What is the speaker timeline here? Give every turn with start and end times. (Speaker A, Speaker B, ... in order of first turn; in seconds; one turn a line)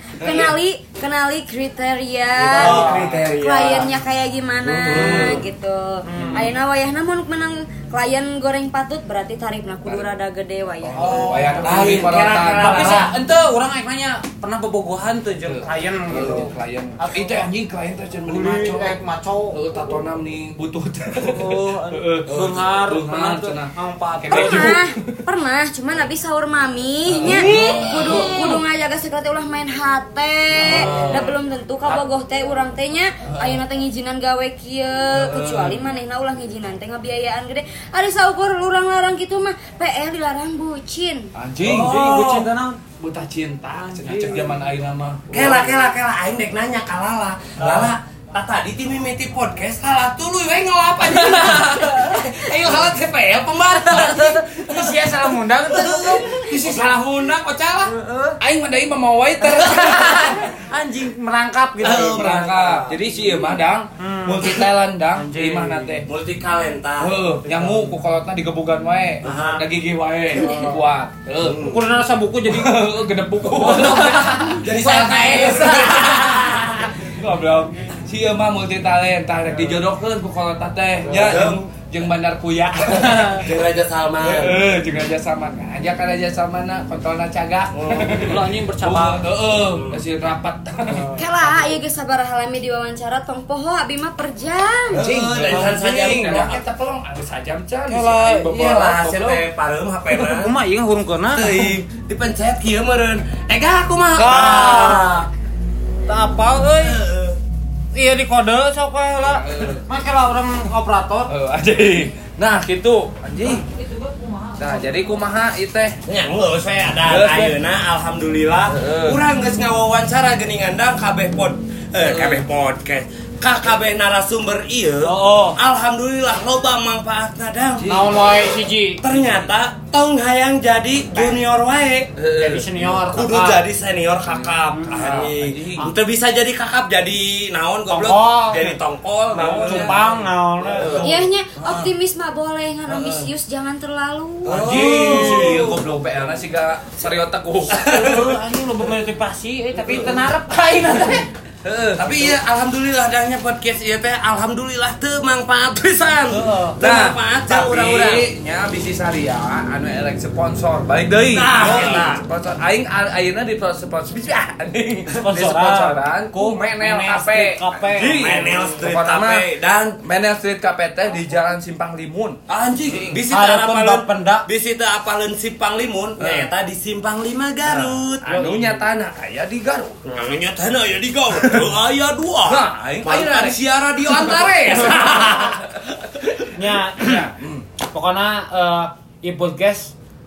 Speaker A: 0.2-0.5
Speaker B: 0.2-11.4
Speaker C: 2.4-3.9
Speaker D: 2.5-3.3
Speaker C: 4.6-5.4
Speaker A: 4.9-5.3
Speaker D: 6.0-6.5
Speaker A: 10.8-13.1
Speaker D: 10.9-17.5
Speaker C: 11.6-13.1
Speaker A: 15.4-19.0
Speaker D: 18.3-19.6
Speaker A: 19.5-25.2
Speaker D: 21.2-24.8
Speaker B: 24.3-41.3
Speaker A: 27.1-28.6
Speaker D: 27.2-28.2
Speaker D: 30.6-31.3
Speaker A: 30.6-31.3
Speaker A: 33.3-33.6
Speaker A: 35.1-35.8
Speaker A: 41.3-42.5
Speaker C: 41.6-42.1
Speaker D: 41.6-42.8
Speaker A: 43.0-45.8
Speaker D: 43.8-44.6
Speaker C: 45.3-55.1
Speaker D: 47.6-47.9
Speaker D: 51.0-53.0
Speaker D: 53.5-56.9
Speaker C: 55.6-57.9
Speaker A: 56.6-57.0
Speaker D: 57.8-58.4
Speaker A: 58.4-60.4
Speaker D: 59.4-62.4
Speaker C: 61.8-63.0
Speaker A: 61.8-66.1
Speaker D: 64.0-66.0
Speaker C: 66.0-67.2
Speaker A: 67.0-71.7
Speaker D: 67.5-67.8
Speaker C: 69.2-69.6
Speaker D: 69.2-69.6
Speaker D: 70.4-70.7
Speaker C: 71.4-71.8
Speaker D: 71.7-72.8
Speaker A: 72.4-76.4
Speaker D: 73.5-76.5
Speaker C: 73.6-76.9
Speaker A: 77.0-83.5
Speaker C: 81.0-81.6
Speaker C: 83.4-84.6
Speaker A: 84.2-91.1
Speaker C: 87.7-88.3
Speaker D: 88.1-89.2
Speaker C: 89.6-90.0
Speaker D: 90.8-91.8
Speaker B: 91.2-95.0
Speaker C: 94.9-96.6
Speaker A: 94.9-99.4
Speaker D: 95.6-96.4
Speaker D: 97.9-98.5
Speaker C: 98.4-100.5
Speaker D: 100.1-101.7
Speaker C: 101.3-105.3
Speaker D: 104.1-105.2
Speaker D: 106.1-107.0
Speaker C: 106.7-107.4
Speaker D: 107.9-111.3
Speaker A: 109.2-109.8
Speaker A: 111.3-113.6
Speaker D: 113.5-115.1
Speaker A: 114.6-116.0
Speaker C: 116.0-128.0
Speaker A: 117.0-117.5
Speaker A: 118.7-119.2
Speaker A: 122.0-122.4
Speaker D: 125.0-125.6
Speaker A: 127.8-128.2
Speaker D: 127.9-129.0
Speaker C: 129.0-132.1
Speaker A: 132.2-132.8
Speaker D: 132.4-133.6
Speaker C: 133.1-140.0
Speaker A: 134.2-135.9
Speaker D: 134.7-135.2
Speaker D: 137.9-138.8
Speaker A: 139.3-141.9
Speaker D: 139.6-141.0
Speaker C: 140.7-141.1
Speaker B: 141.0-144.7
Speaker A: 142.9-143.3
Speaker A: 144.4-148.0
Speaker C: 144.5-145.8
Speaker D: 144.6-145.7
Speaker C: 147.7-148.3
Speaker D: 147.8-151.3
Speaker C: 149.8-150.1
Speaker A: 151.6-152.3
Speaker C: 151.9-158.3
Speaker D: 156.3-156.8
Speaker A: 156.8-169.4
Speaker C: 161.3-162.2
Speaker D: 161.6-162.1
Speaker D: 165.1-168.3
Speaker C: 168.1-170.0
Speaker A: 170.0-173.2
Speaker C: 172.5-178.3
Speaker D: 173.3-174.4
Speaker A: 176.2-176.5
Speaker A: 177.6-179.9
Speaker D: 178.2-178.8
Speaker C: 180.0-186.4
Speaker A: 181.4-181.7
Speaker A: 182.5-185.7
Speaker D: 186.5-187.3
Speaker A: 187.0-187.6
Speaker D: 187.9-189.9